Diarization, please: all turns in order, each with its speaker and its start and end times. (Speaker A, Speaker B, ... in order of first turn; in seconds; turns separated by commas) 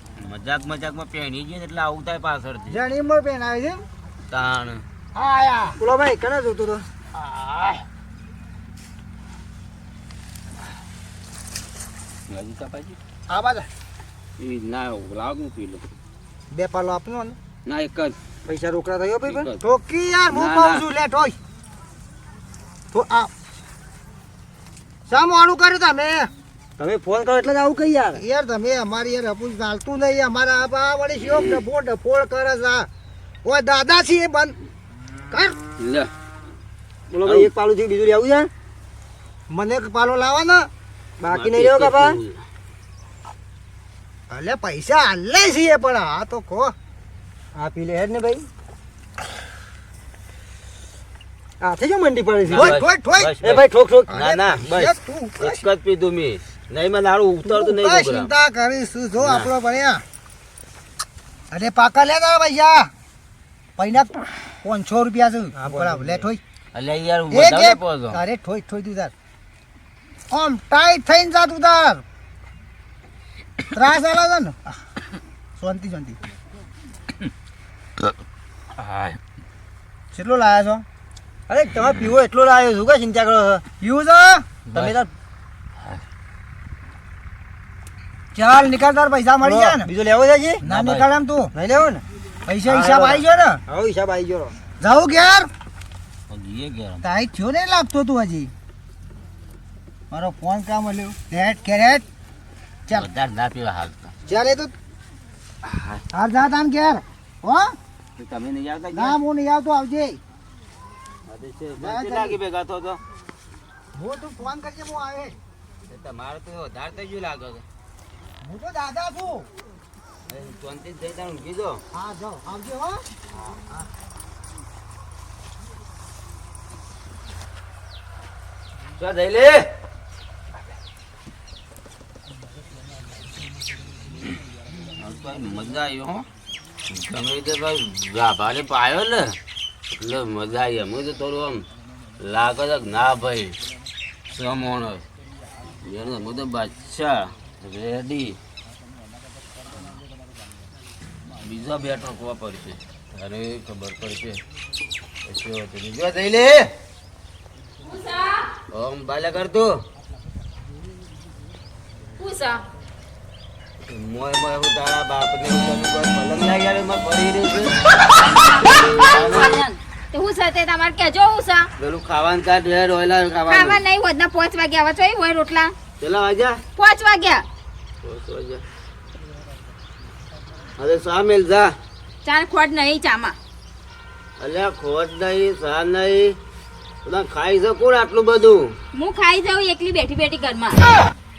Speaker A: 0.2-2.8, Speaker B: 2.7-3.8, Speaker A: 4.3-4.8, Speaker B: 5.1-5.8, Speaker C: 5.8-6.8, Speaker A: 7.1-7.8, Speaker A: 12.3-13.0, Speaker B: 13.3-13.7, Speaker A: 14.4-15.9, Speaker B: 16.5-17.4, Speaker A: 17.6-18.1, Speaker C: 18.5-19.5, Speaker A: 19.2-19.6, Speaker B: 19.5-21.4, Speaker A: 20.3-20.9, Speaker B: 22.9-23.3, Speaker B: 25.1-26.3, Speaker C: 26.8-28.2, Speaker B: 28.1-32.9, Speaker A: 31.3-31.6, Speaker B: 33.4-34.6, Speaker B: 35.3-35.6, Speaker A: 35.8-36.1, Speaker C: 37.1-38.5, Speaker A: 37.2-37.5, Speaker B: 39.5-40.7, Speaker C: 41.2-42.2, Speaker A: 41.3-42.4, Speaker B: 44.3-46.7, Speaker C: 47.5-48.5, Speaker C: 51.6-52.7, Speaker A: 52.4-58.3, Speaker B: 52.5-53.3, Speaker C: 53.4-54.1, Speaker B: 54.1-55.6, Speaker B: 57.4-60.0, Speaker A: 59.2-59.5, Speaker B: 61.5-62.9, Speaker B: 63.8-66.4, Speaker C: 65.5-66.2, Speaker A: 66.7-68.2, Speaker B: 67.3-69.1, Speaker B: 70.3-72.0, Speaker B: 73.7-74.7, Speaker B: 75.6-76.2, Speaker A: 78.8-79.2, Speaker B: 80.1-80.8, Speaker C: 81.5-83.6, Speaker B: 83.8-84.5, Speaker A: 84.7-85.0, Speaker C: 84.7-85.1, Speaker B: 88.3-89.9, Speaker C: 89.4-90.6, Speaker B: 90.6-91.5, Speaker A: 90.7-91.1, Speaker C: 91.5-92.0, Speaker B: 92.5-93.6, Speaker C: 92.6-94.5, Speaker B: 94.8-95.5, Speaker A: 96.3-97.0, Speaker B: 97.0-98.5, Speaker B: 100.1-102.0, Speaker A: 102.9-104.1, Speaker B: 104.2-104.7, Speaker A: 105.6-106.0, Speaker B: 106.1-107.8, Speaker A: 108.2-109.2, Speaker B: 108.9-110.2, Speaker A: 111.3-113.0, Speaker B: 111.8-112.4, Speaker B: 113.9-115.4, Speaker A: 115.8-117.6, Speaker B: 118.4-119.5, Speaker A: 120.3-121.8, Speaker B: 121.9-123.0, Speaker A: 129.0-129.7, Speaker A: 134.9-136.2, Speaker A: 136.9-139.4, Speaker A: 139.9-141.7, Speaker A: 142.2-143.6, Speaker A: 144.3-145.0, Speaker A: 145.8-148.4, Speaker A: 151.4-154.4, Speaker A: 155.2-156.7, Speaker D: 157.8-158.5, Speaker A: 158.7-159.8, Speaker D: 162.2-162.6, Speaker A: 163.8-167.8, Speaker D: 168.1-171.7, Speaker A: 168.7-169.5, Speaker A: 171.8-173.8, Speaker D: 173.5-175.7, Speaker A: 176.0-176.6, Speaker D: 176.8-177.4, Speaker A: 178.0-178.6, Speaker A: 180.8-181.7, Speaker D: 182.2-183.3, Speaker A: 184.4-186.3, Speaker A: 187.0-188.7, Speaker D: 188.9-190.8